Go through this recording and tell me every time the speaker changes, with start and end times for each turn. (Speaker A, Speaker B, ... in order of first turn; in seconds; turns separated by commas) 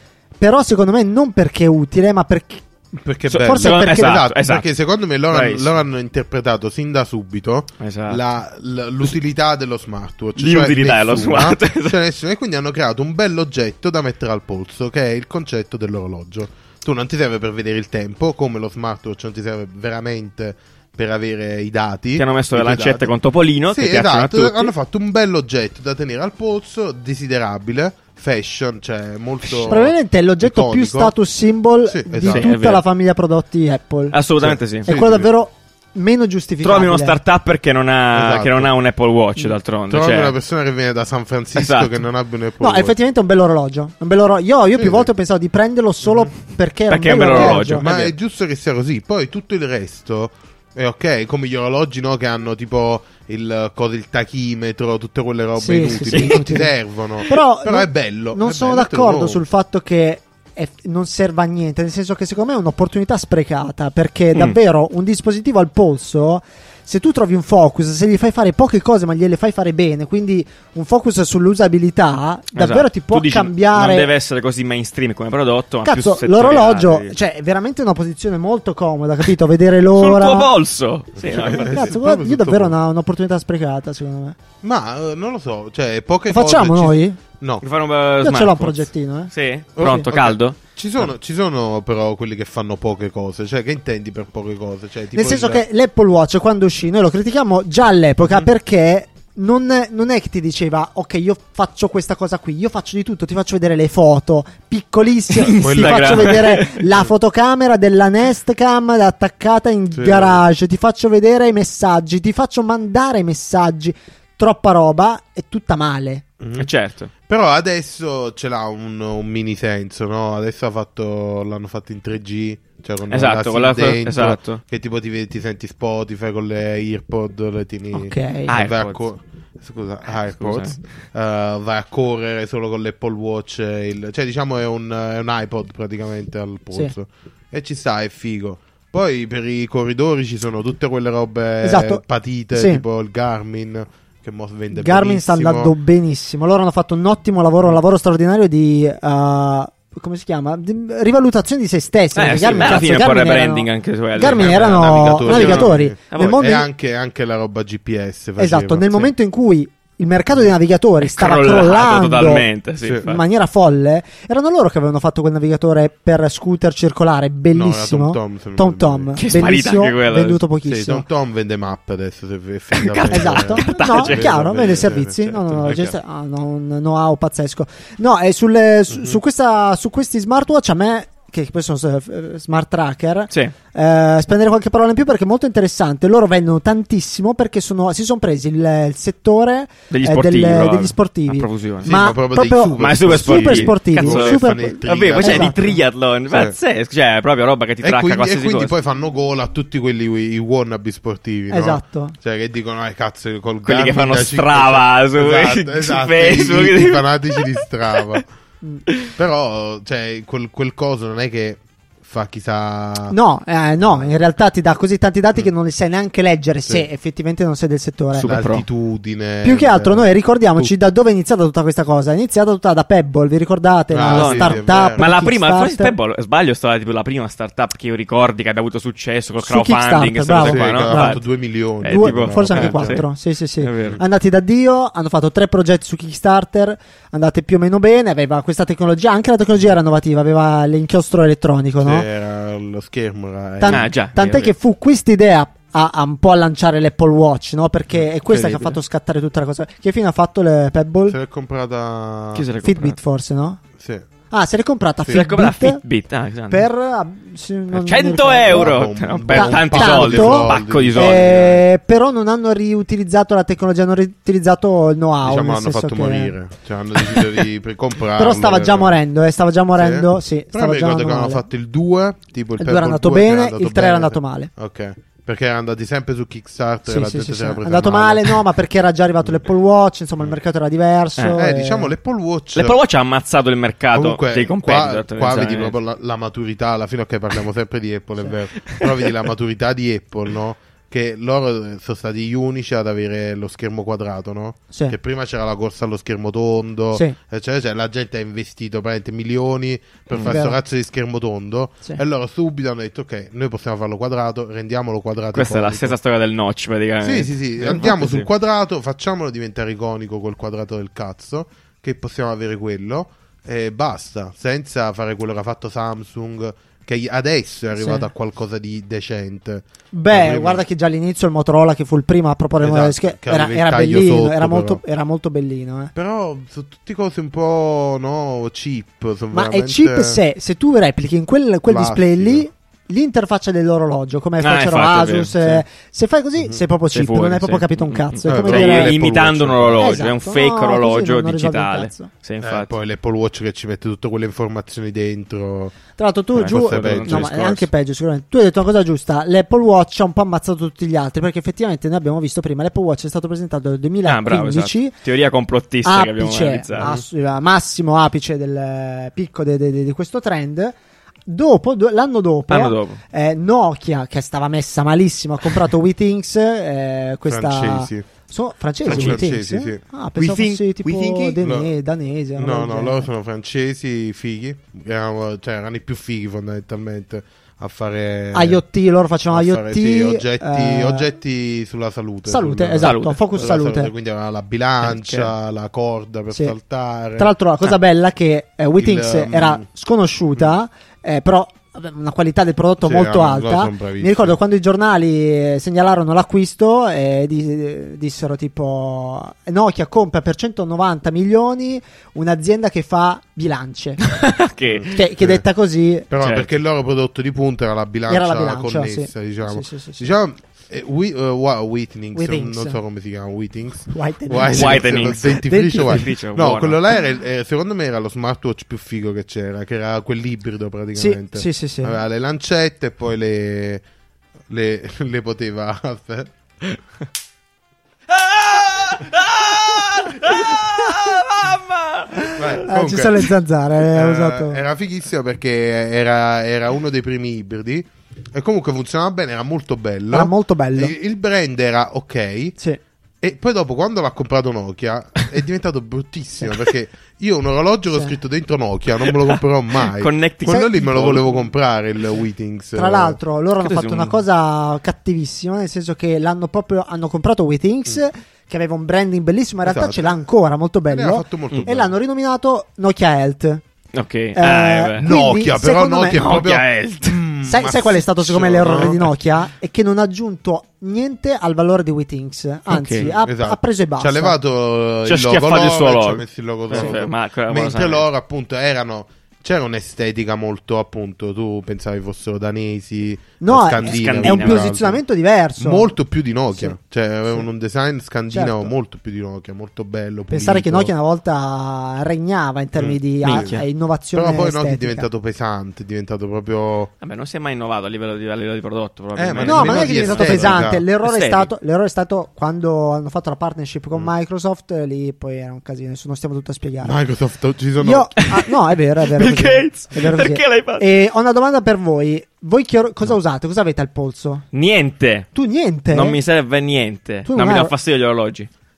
Speaker A: 0.4-2.6, Speaker B: 3.0-23.2, Speaker C: 3.3-4.7, Speaker A: 3.3-4.2, Speaker C: 5.2-5.8, Speaker C: 7.8-8.2, Speaker C: 10.4-12.0, Speaker C: 22.2-24.7, Speaker B: 23.7-31.2, Speaker A: 29.6-34.2, Speaker B: 31.9-32.5, Speaker C: 32.2-32.9, Speaker C: 34.1-34.9, Speaker B: 34.4-35.3, Speaker A: 34.9-37.2, Speaker C: 36.6-40.4, Speaker B: 38.1-38.7, Speaker B: 39.9-43.0, Speaker C: 41.6-42.0, Speaker A: 42.6-47.9, Speaker B: 44.8-45.1, Speaker B: 46.0-46.3, Speaker C: 46.9-48.1, Speaker B: 47.3-59.4, Speaker A: 55.6-74.1, Speaker C: 56.0-56.6, Speaker C: 72.5-77.2, Speaker A: 75.8-80.5, Speaker C: 79.9-81.9, Speaker B: 81.2-82.8, Speaker A: 81.4-84.4, Speaker B: 84.6-87.6, Speaker A: 86.3-87.2, Speaker C: 87.6-91.1, Speaker A: 88.2-90.1, Speaker B: 89.8-95.7, Speaker A: 95.1-116.2, Speaker C: 105.3-106.8, Speaker B: 105.6-107.1, Speaker B: 109.9-110.4, Speaker B: 116.4-116.7, Speaker C: 116.6-117.1, Speaker B: 117.3-145.8, Speaker C: 123.1-124.6, Speaker A: 127.9-128.6, Speaker C: 128.5-129.0, Speaker C: 130.1-130.8, Speaker A: 141.6-142.8, Speaker A: 144.7-156.7, Speaker C: 152.1-156.4, Speaker B: 152.3-152.9, Speaker B: 154.2-159.1, Speaker A: 158.4-162.5, Speaker C: 161.0-163.2, Speaker B: 162.8-163.1, Speaker A: 163.1-171.1, Speaker B: 167.5-169.2, Speaker C: 169.2-170.4, Speaker B: 170.7-175.9, Speaker C: 172.7-175.9, Speaker A: 173.0-195.8, Speaker B: 178.9-179.2, Speaker C: 189.9-191.9, Speaker B: 191.8-195.6, Speaker C: 192.8-198.8, Speaker B: 196.3-196.6, Speaker B: 197.8-208.3, Speaker A: 201.5-202.2, Speaker C: 203.7-208.2, Speaker B: 209.2-213.2, Speaker A: 213.1-218.3, Speaker B: 213.8-214.1, Speaker C: 218.1-218.7, Speaker B: 218.2-220.7, Speaker A: 219.4-225.9, Speaker B: 223.9-225.1, Speaker C: 224.1-231.2, Speaker A: 229.4-231.2, Speaker B: 230.4-233.0, Speaker C: 231.8-233.1, Speaker A: 231.8-242.1, Speaker C: 233.6-234.0, Speaker B: 241.8-243.9, Speaker A: 243.6-251.2, Speaker C: 243.7-244.5, Speaker C: 248.3-248.8, Speaker B: 251.1-252.5, Speaker C: 252.3-253.0, Speaker A: 252.6-253.6, Speaker B: 253.8-254.1, Speaker A: 254.3-255.8, Speaker C: 255.1-256.7, Speaker A: 256.5-258.8, Speaker C: 257.7-261.6, Speaker B: 258.5-261.6, Speaker A: 259.3-266.4, Speaker B: 265.2-269.0, Speaker A: 268.1-271.5, Speaker B: 269.8-278.4, Speaker A: 272.6-274.5, Speaker A: 276.9-281.9, Speaker B: 281.4-282.8, Speaker C: 282.6-285.8, Speaker B: 283.9-306.0, Speaker C: 288.7-289.1, Speaker A: 294.7-295.0, Speaker C: 300.1-300.4, Speaker A: 300.2-300.6, Speaker C: 305.3-308.3, Speaker B: 307.0-320.6, Speaker A: 317.8-318.1, Speaker A: 319.9-325.9, Speaker B: 322.6-324.8, Speaker B: 325.9-330.2, Speaker A: 329.3-339.0, Speaker B: 331.7-332.5, Speaker C: 334.4-335.6, Speaker B: 336.4-336.6, Speaker C: 336.9-342.7, Speaker B: 338.3-340.0, Speaker A: 339.8-342.1, Speaker B: 342.4-345.8, Speaker A: 346.0-354.9, Speaker C: 346.4-347.3, Speaker B: 346.4-347.7, Speaker C: 354.0-356.9, Speaker A: 355.9-373.1, Speaker B: 356.8-357.0, Speaker C: 362.5-363.0, Speaker B: 367.3-368.1, Speaker B: 368.9-369.8, Speaker C: 368.9-369.2, Speaker C: 370.2-371.4, Speaker B: 371.4-371.7, Speaker B: 372.4-378.6, Speaker A: 378.3-381.1, Speaker B: 379.3-387.4, Speaker A: 382.3-383.9, Speaker C: 382.8-383.4, Speaker C: 384.8-385.3, Speaker A: 386.3-386.6, Speaker A: 387.2-404.3, Speaker B: 388.8-389.7, Speaker B: 392.8-394.4, Speaker C: 404.0-405.1, Speaker B: 404.7-405.4, Speaker A: 404.9-406.1, Speaker B: 406.1-423.8, Speaker C: 406.2-406.5, Speaker A: 408.1-410.1, Speaker A: 412.1-412.8, Speaker A: 413.9-416.0, Speaker C: 414.5-416.8, Speaker A: 420.9-422.0, Speaker B: 424.5-426.3, Speaker C: 428.1-432.6, Speaker B: 432.4-442.6, Speaker A: 432.5-434.6, Speaker A: 440.1-440.9, Speaker B: 443.2-453.2, Speaker C: 449.1-451.2, Speaker A: 450.5-451.5, Speaker A: 452.8-463.6, Speaker C: 453.6-454.2, Speaker B: 459.6-460.2, Speaker B: 460.9-462.0, Speaker C: 463.9-465.1, Speaker A: 464.4-466.3, Speaker B: 465.0-469.1, Speaker C: 466.1-467.2, Speaker A: 467.4-474.4, Speaker C: 472.7-473.1, Speaker B: 473.0-485.0, Speaker C: 475.1-478.1, Speaker A: 483.4-485.9, Speaker C: 483.8-484.7, Speaker B: 485.6-490.9, Speaker A: 488.3-488.7, Speaker A: 490.3-495.1, Speaker B: 492.8-496.9, Speaker C: 493.2-493.7, Speaker C: 497.0-501.5, Speaker B: 499.1-500.9, Speaker A: 499.4-507.0, Speaker B: 506.8-508.2, Speaker A: 507.8-514.5, Speaker C: 508.2-508.5, Speaker C: 509.1-510.9, Speaker C: 514.5-515.3, Speaker A: 515.3-516.2, Speaker C: 515.9-518.5, Speaker A: 517.3-517.7